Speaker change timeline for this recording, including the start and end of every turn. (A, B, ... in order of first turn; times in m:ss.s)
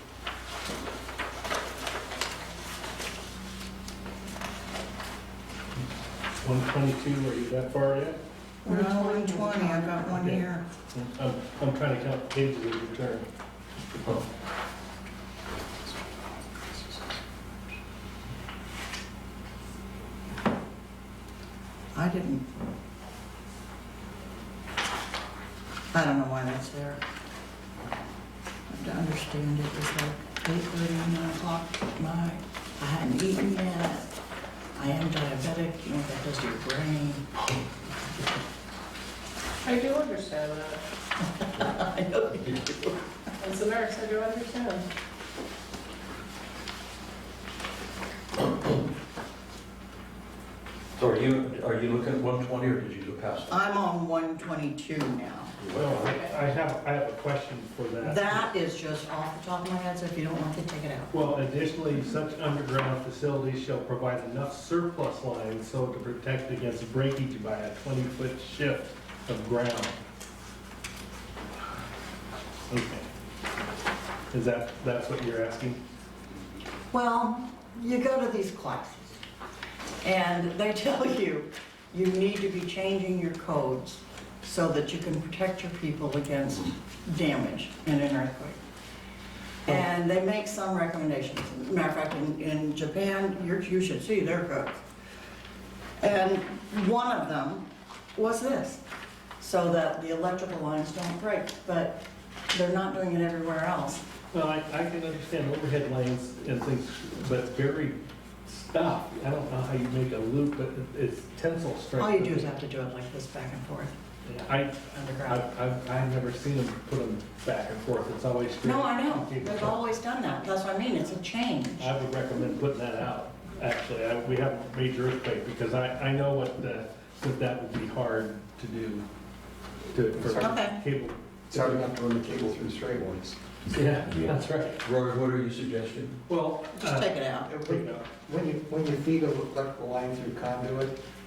0:06.4-0:08.2 A
0:08.6-0:10.7 B
0:08.7-0:10.1 C
0:10.1-0:13.3 A
0:21.9-0:22.5 B
0:25.9-0:27.0 B
0:28.7-0:34.1 B
0:34.8-0:37.3 B
0:39.6-0:40.8 C
0:41.4-0:43.0 B
0:43.4-0:44.8 C
0:51.0-0:53.6 D
0:53.5-0:55.6 B
0:55.6-0:56.4 D
0:55.7-0:58.5 A
0:58.0-1:01.3 B
1:01.1-1:10.0 A
1:12.7-1:13.1 A
1:14.3-1:15.8 A
1:16.9-1:19.2 B
1:20.0-1:28.6 B
1:29.6-1:34.8 B
1:36.0-1:38.8 B
1:39.4-1:42.0 B
1:42.5-1:44.0 B
1:44.3-1:52.5 A
1:52.0-1:53.9 B
1:54.3-1:59.8 A
1:54.9-1:55.4 B
1:58.6-2:01.9 B
2:01.8-2:09.1 A
2:09.9-2:11.8 A
2:10.4-2:10.8 B
2:11.5-2:13.4 E
2:13.7-2:14.8 A
2:14.8-2:16.2 D
2:16.3-2:18.1 A
2:16.8-2:17.5 B
2:17.6-2:21.0 E